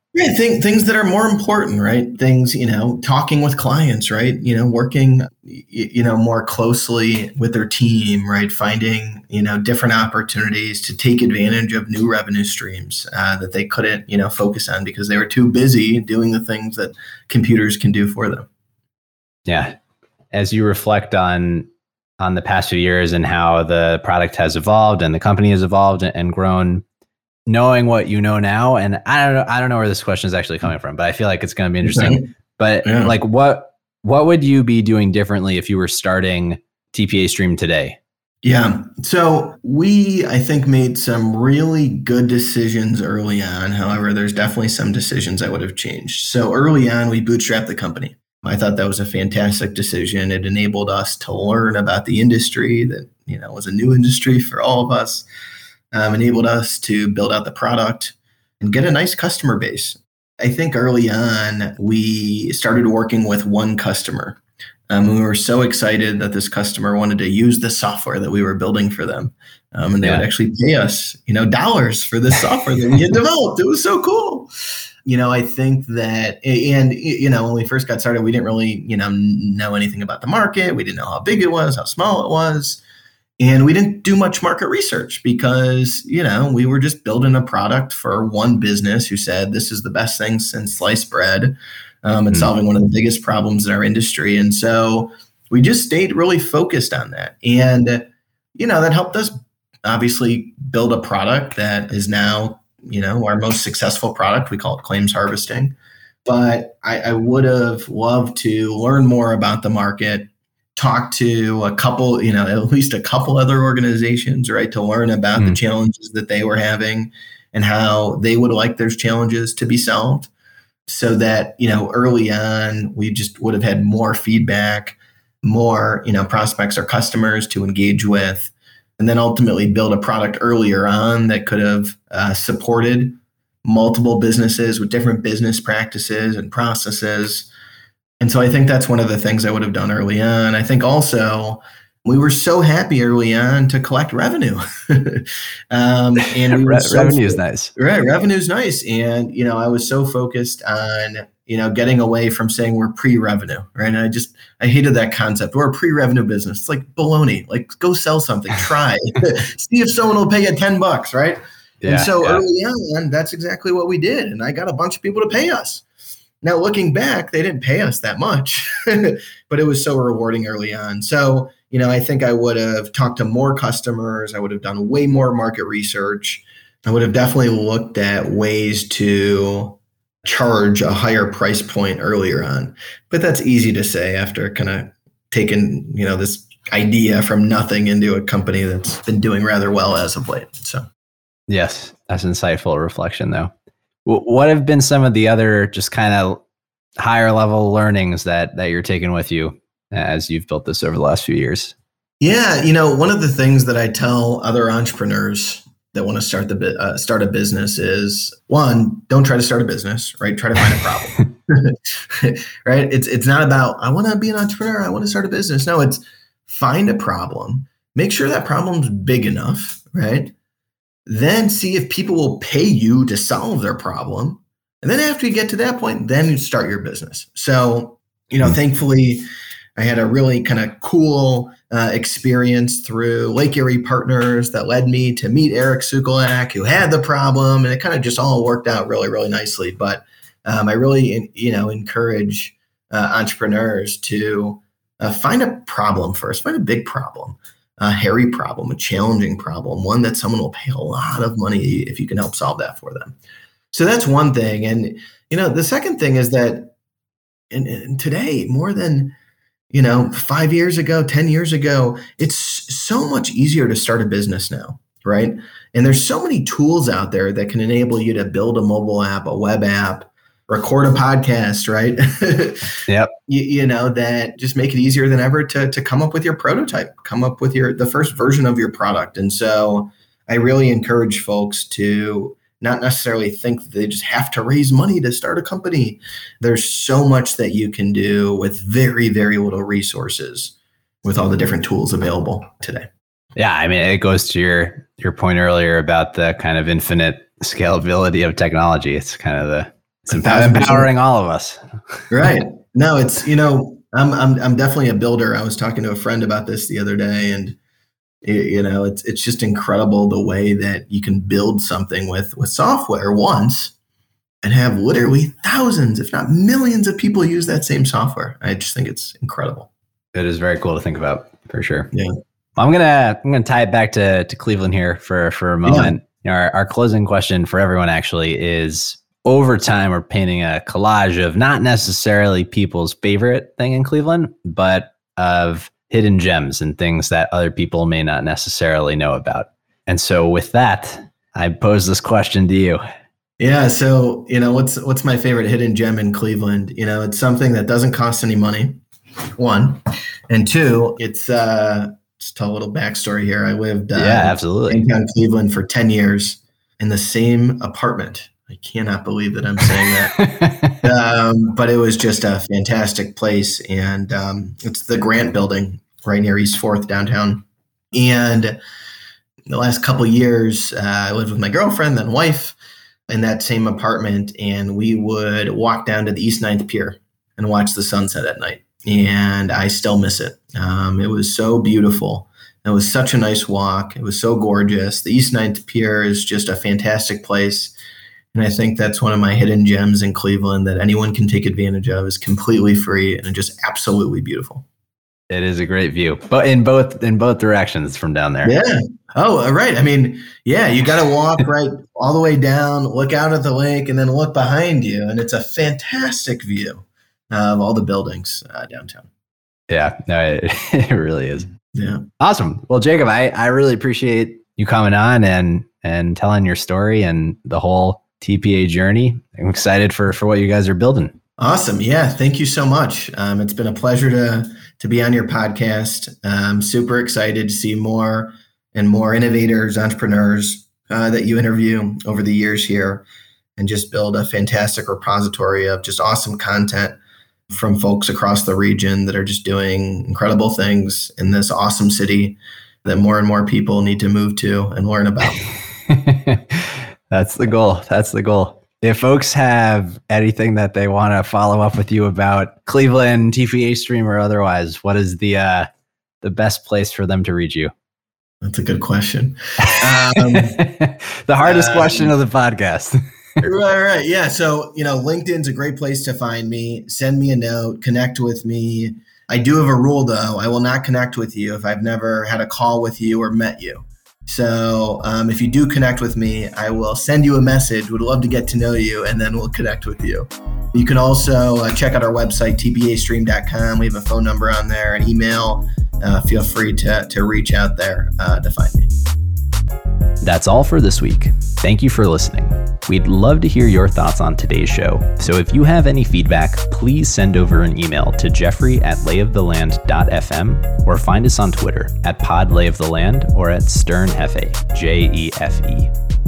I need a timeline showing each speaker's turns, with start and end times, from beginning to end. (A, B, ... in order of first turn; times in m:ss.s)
0:00.1-0:18.5 A
0:19.4-0:19.7 B
0:20.3-0:21.7 B
0:22.2-0:26.8 B
0:27.5-0:38.0 B
0:31.9-0:32.2 A
0:32.8-0:33.1 A
0:38.4-0:55.2 A
0:55.9-1:14.5 A
1:15.0-1:22.8 A
1:23.4-1:38.0 A
1:38.6-1:45.7 A
1:46.2-2:00.3 A
2:00.9-2:17.5 A
2:18.2-2:45.8 A
2:26.5-2:27.7 B
2:41.8-2:42.4 B
2:46.4-3:10.8 A
3:11.5-3:13.5 B
3:14.0-3:16.4 B
3:17.0-3:21.7 B
3:22.2-3:40.3 A
3:41.0-3:49.2 A
3:49.8-4:13.2 A
4:13.7-4:16.7 A
4:17.5-4:19.1 A
4:19.7-4:52.9 A
4:53.4-5:02.0 B
5:00.1-5:00.9 A
5:02.1-5:07.6 A
5:08.2-5:13.7 A
5:14.4-5:19.7 A
5:20.1-5:21.9 B
5:22.6-5:42.8 B
5:25.6-5:25.9 A
5:43.4-5:48.8 A
5:49.4-6:00.2 A
5:54.0-5:54.8 B
5:59.7-6:00.8 B
6:00.8-6:08.6 A
6:09.5-6:12.5 A
6:13.1-6:27.7 A
6:28.3-6:34.6 A
6:35.3-6:38.5 B
6:38.4-6:49.1 A
6:49.7-6:51.5 B
6:51.7-6:52.0 A
6:52.2-7:01.2 B
7:01.4-7:13.0 A
7:13.6-7:17.0 A
7:17.5-7:25.4 A
7:25.8-7:35.7 B
7:36.2-7:37.7 B
7:38.4-7:40.6 A
7:39.6-7:43.4 B
7:41.4-7:42.1 A
7:43.4-8:08.9 A
8:10.2-8:25.9 B